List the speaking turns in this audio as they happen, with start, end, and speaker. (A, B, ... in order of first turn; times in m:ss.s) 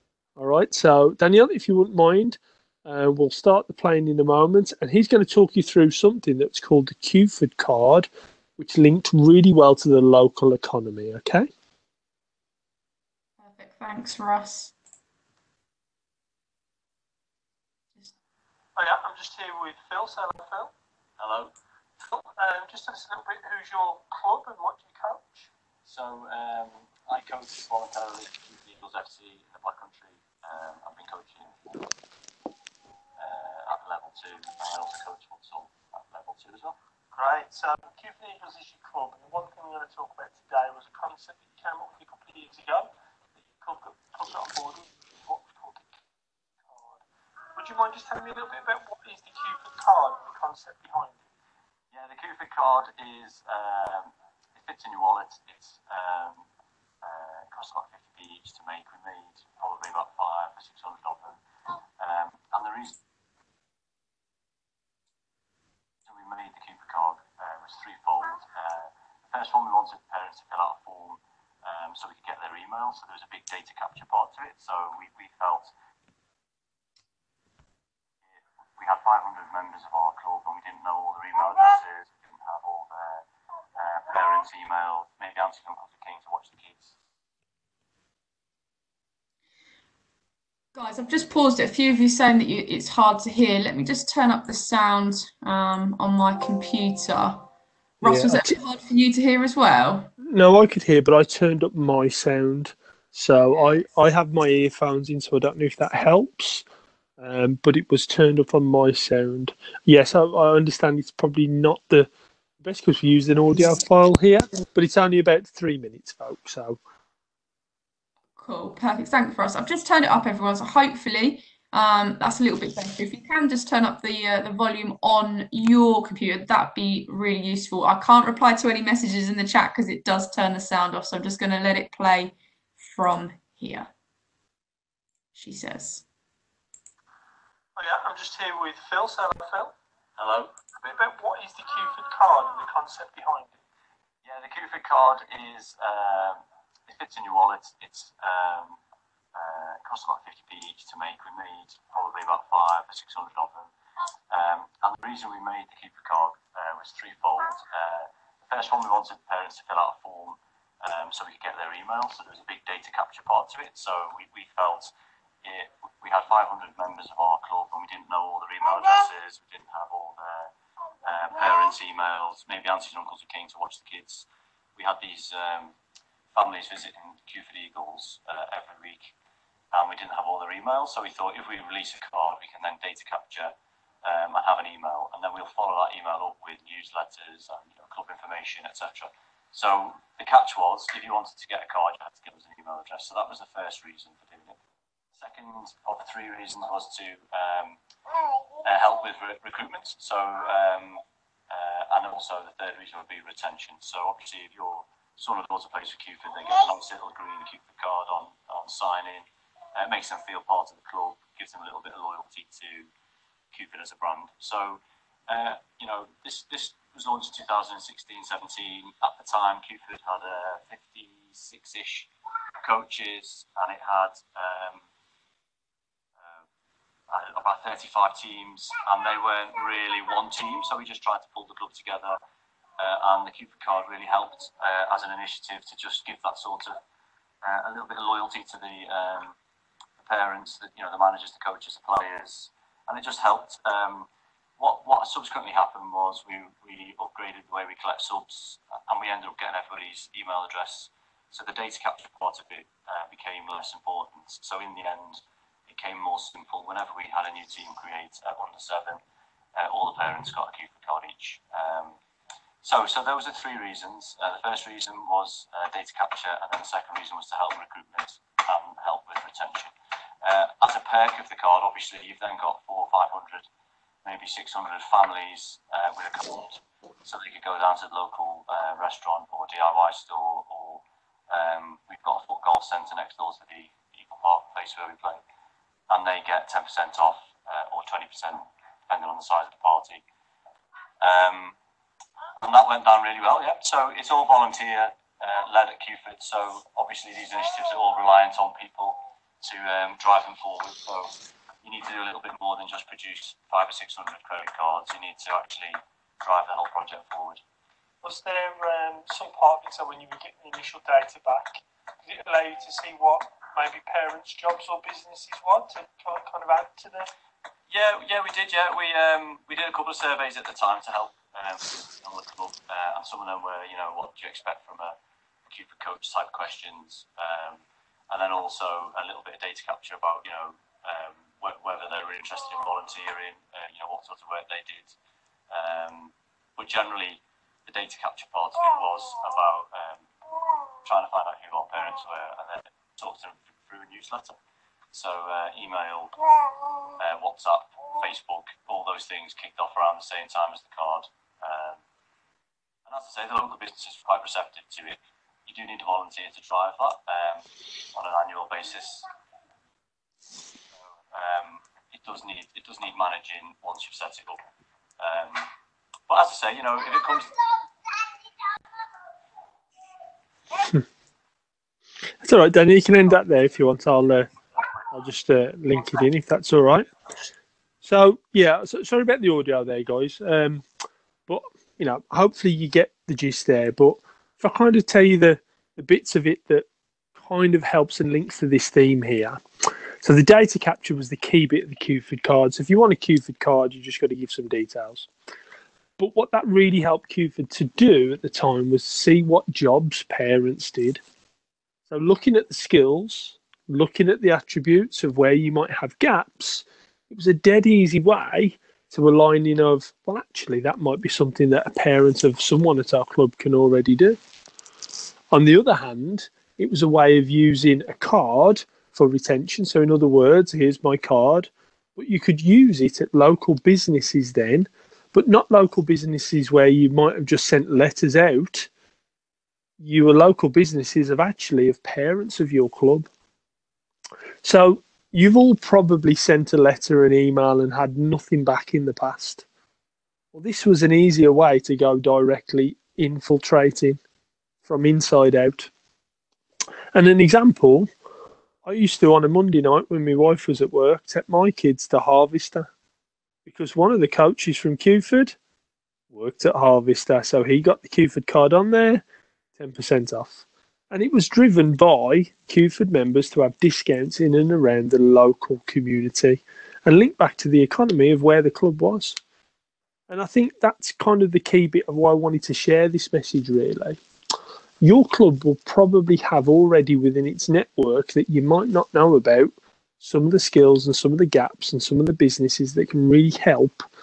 0:00.4-0:11.5 A
0:13.4-0:14.7 B
0:18.8-0:20.7 A
0:21.2-0:21.5 C
0:22.1-0:25.5 A
0:25.8-0:31.9 C
0:33.2-0:36.8 C
0:37.1-0:42.9 A
0:43.4-0:45.9 A
0:46.7-0:47.0 A
0:47.6-0:51.2 A
0:51.9-0:56.4 C
0:57.0-1:01.4 C
1:02.0-1:03.0 C
1:06.1-1:15.7 C
1:18.4-1:23.2 C
1:23.8-1:26.9 C
1:30.8-1:37.5 B
1:38.0-1:40.1 B
1:38.0-1:38.5 A
1:40.2-1:46.6 A
1:47.2-1:52.1 A
1:52.6-1:56.8 A
1:58.4-2:13.9 B
2:15.4-2:16.0 B
2:17.8-2:19.8 A
2:20.2-2:20.5 C
2:20.9-2:23.6 A
2:24.2-2:28.8 C
2:29.4-2:33.7 C
2:34.3-2:44.9 C
2:45.4-2:50.5 C
2:51.0-2:55.7 C
2:56.4-2:59.1 C
2:59.7-3:14.6 C
3:15.2-3:17.8 C
3:18.6-3:32.9 C
3:33.5-3:42.1 C
3:42.6-3:44.8 C
3:47.1-3:52.2 C
3:52.8-3:56.8 C
3:57.4-3:59.4 C
4:00.0-4:04.1 C
4:04.6-4:19.0 C
4:19.6-4:22.0 C
4:22.6-4:33.5 C
4:34.0-4:45.2 C
4:45.9-4:50.0 C
4:51.0-4:51.6 C
4:52.4-5:01.1 C
5:01.6-5:07.4 C
5:08.0-5:17.1 A
5:17.7-5:25.0 C
5:25.5-5:34.9 C
5:35.5-5:40.1 C
5:40.8-5:44.4 C
5:44.9-5:46.2 C
5:47.0-5:51.8 C
5:52.9-5:59.1 C
6:00.9-6:04.4 C
6:05.0-6:05.5 C
6:06.1-6:07.4 C
6:12.2-6:14.3 A
6:14.9-6:16.9 A
6:17.8-6:20.6 A
6:21.3-6:29.4 A
6:30.0-6:35.1 A
6:36.0-6:41.0 A
6:41.9-6:54.2 A
6:55.3-7:08.7 A
7:09.8-7:13.1 A
7:14.4-7:19.5 A
7:20.3-7:24.0 A
7:24.6-7:25.7 A
7:26.9-7:27.9 A
7:28.6-7:32.7 A
7:33.5-7:35.4 A
7:36.1-7:39.0 A
7:39.6-7:49.2 A
7:50.1-7:54.0 A
7:54.8-8:03.8 A